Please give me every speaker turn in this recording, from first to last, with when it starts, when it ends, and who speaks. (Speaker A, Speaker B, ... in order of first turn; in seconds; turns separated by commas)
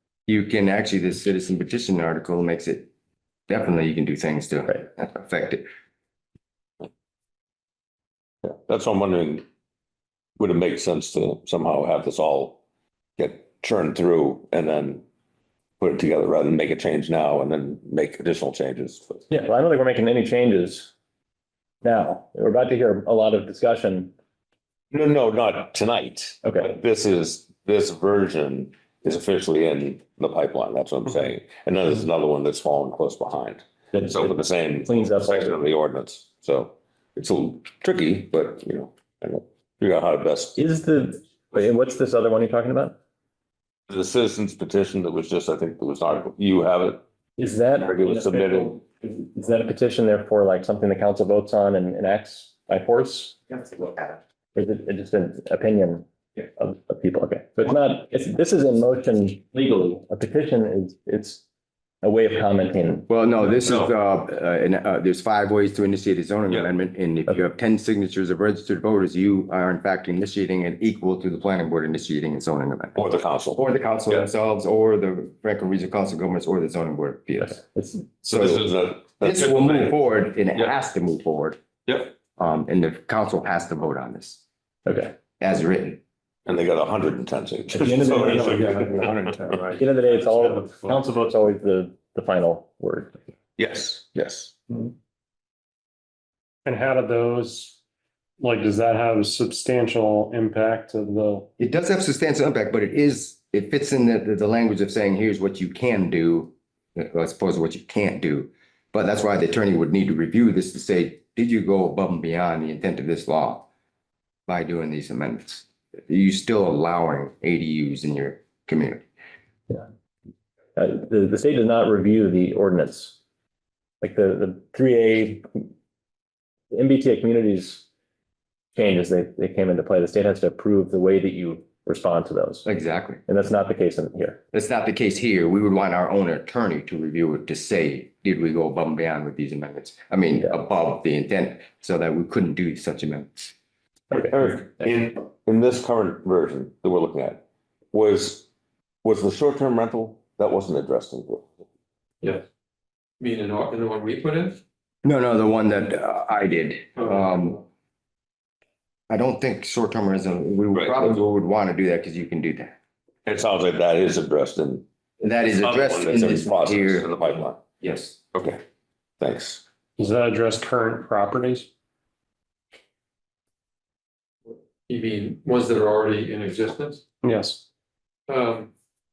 Speaker A: 0.3-2.9, Speaker A: 3.5-5.6, Speaker B: 8.4-9.4, Speaker B: 10.4-12.6, Speaker B: 13.2-15.0, Speaker B: 15.8-19.2, Speaker C: 19.3-20.9, Speaker C: 21.8-24.1, Speaker B: 24.9-40.6, Speaker C: 26.4-26.7, Speaker C: 33.9-34.3, Speaker C: 34.9-35.5, Speaker C: 40.6-43.0, Speaker B: 43.9-47.0, Speaker C: 47.4-61.4, Speaker B: 47.8-48.8, Speaker C: 62.0-63.1, Speaker A: 63.1-73.0, Speaker B: 72.9-74.2, Speaker A: 73.5-77.6, Speaker C: 77.5-78.0, Speaker B: 78.2-80.0, Speaker A: 78.3-78.7, Speaker A: 79.2-81.6, Speaker A: 82.3-84.4, Speaker C: 84.8-85.1, Speaker A: 85.4-86.0, Speaker B: 86.5-88.9, Speaker C: 87.8-88.8, Speaker D: 87.9-91.0, Speaker C: 89.7-93.2, Speaker B: 93.6-94.5, Speaker D: 96.6-97.8, Speaker D: 98.4-101.5, Speaker A: 101.6-113.7, Speaker A: 114.5-119.0, Speaker C: 120.8-123.2, Speaker C: 124.0-125.7, Speaker C: 126.7-127.8, Speaker C: 128.7-132.7, Speaker A: 132.6-133.2, Speaker C: 133.3-134.4, Speaker A: 134.5-143.5, Speaker B: 144.1-148.5, Speaker B: 149.0-151.5, Speaker E: 153.2-154.6, Speaker A: 155.0-157.6, Speaker E: 157.0-157.4, Speaker A: 159.1-162.8, Speaker B: 160.7-161.2, Speaker B: 163.2-164.8, Speaker A: 165.2-167.1, Speaker B: 165.5-167.6, Speaker A: 167.8-168.2, Speaker B: 168.3-168.6, Speaker B: 169.2-169.6, Speaker D: 170.0-171.7, Speaker E: 174.5-177.0, Speaker D: 177.2-177.6, Speaker E: 178.3-178.7